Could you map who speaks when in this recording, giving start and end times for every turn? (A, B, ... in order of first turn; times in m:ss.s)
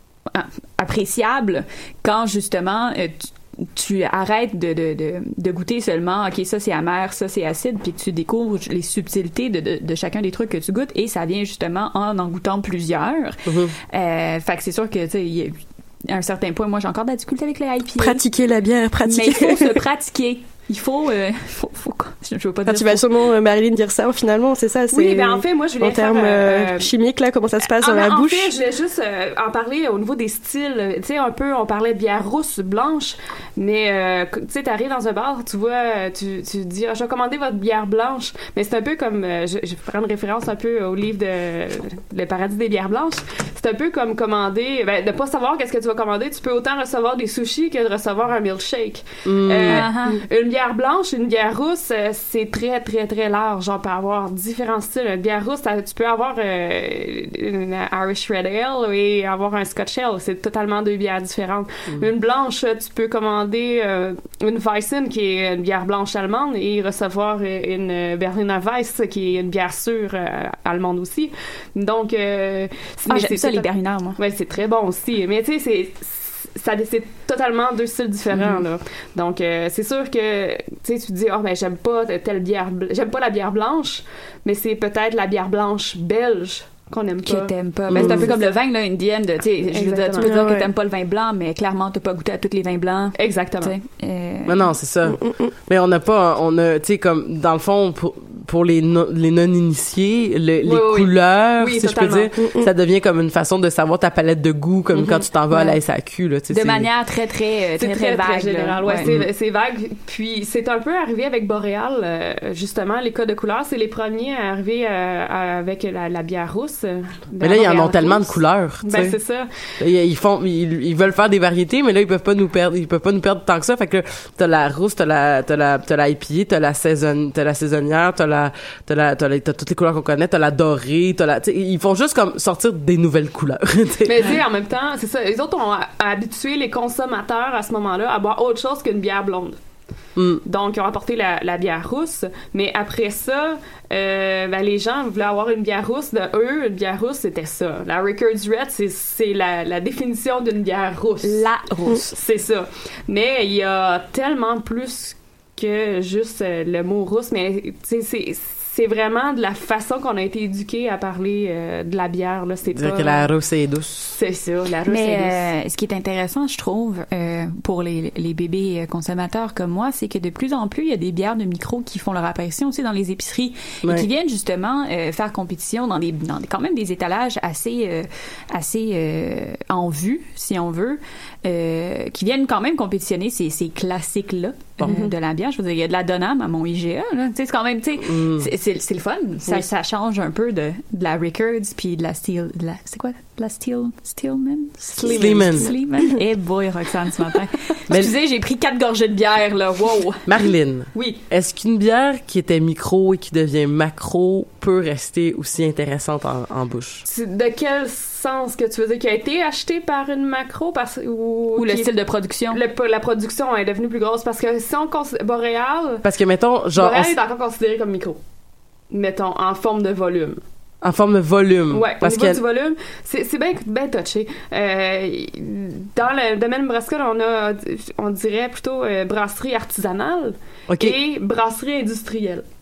0:00.3-0:13.4 A
0:13.4-0:13.7 B
0:13.9-0:15.5 A
0:16.1-0:18.2 A
0:18.0-0:19.8 C
0:19.0-0:23.0 A
0:22.7-0:28.5 C
0:24.9-0:26.9 D
0:27.7-1:28.3 D
0:49.2-0:49.9 B
0:49.7-0:50.2 A
1:13.1-1:14.2 A
1:18.3-1:18.6 A
1:27.2-1:34.7 A
1:27.9-1:28.3 B
1:29.7-1:30.3 D
1:30.2-1:30.7 C
1:33.2-1:33.7 D
1:34.4-1:46.9 B
1:35.0-1:35.5 C
1:40.6-1:42.3 D
1:42.4-1:42.7 C
1:45.0-1:45.2 D
1:46.5-1:49.1 A
1:47.8-1:59.7 D
1:49.0-1:49.3 B
1:57.4-1:59.2 B
1:59.8-2:14.4 B
2:14.0-2:19.6 D
2:20.2-2:20.4 B
2:20.4-2:31.4 D
2:31.2-2:32.1 A
2:32.1-2:43.3 D
2:42.7-2:44.0 B
2:44.0-2:45.4 D
2:44.8-3:20.3 A
3:04.8-3:05.1 D
3:08.0-3:08.5 B
3:14.9-3:15.7 D
3:15.1-3:15.7 B
3:20.3-3:27.0 B
3:20.9-3:21.2 D
3:27.0-3:31.9 D
3:31.6-3:32.6 A
3:32.5-3:36.0 D
3:36.0-3:37.1 B
3:36.7-3:38.2 D
3:38.9-3:40.4 D
3:40.8-3:42.4 B
3:41.7-3:52.4 D
3:50.7-3:51.0 B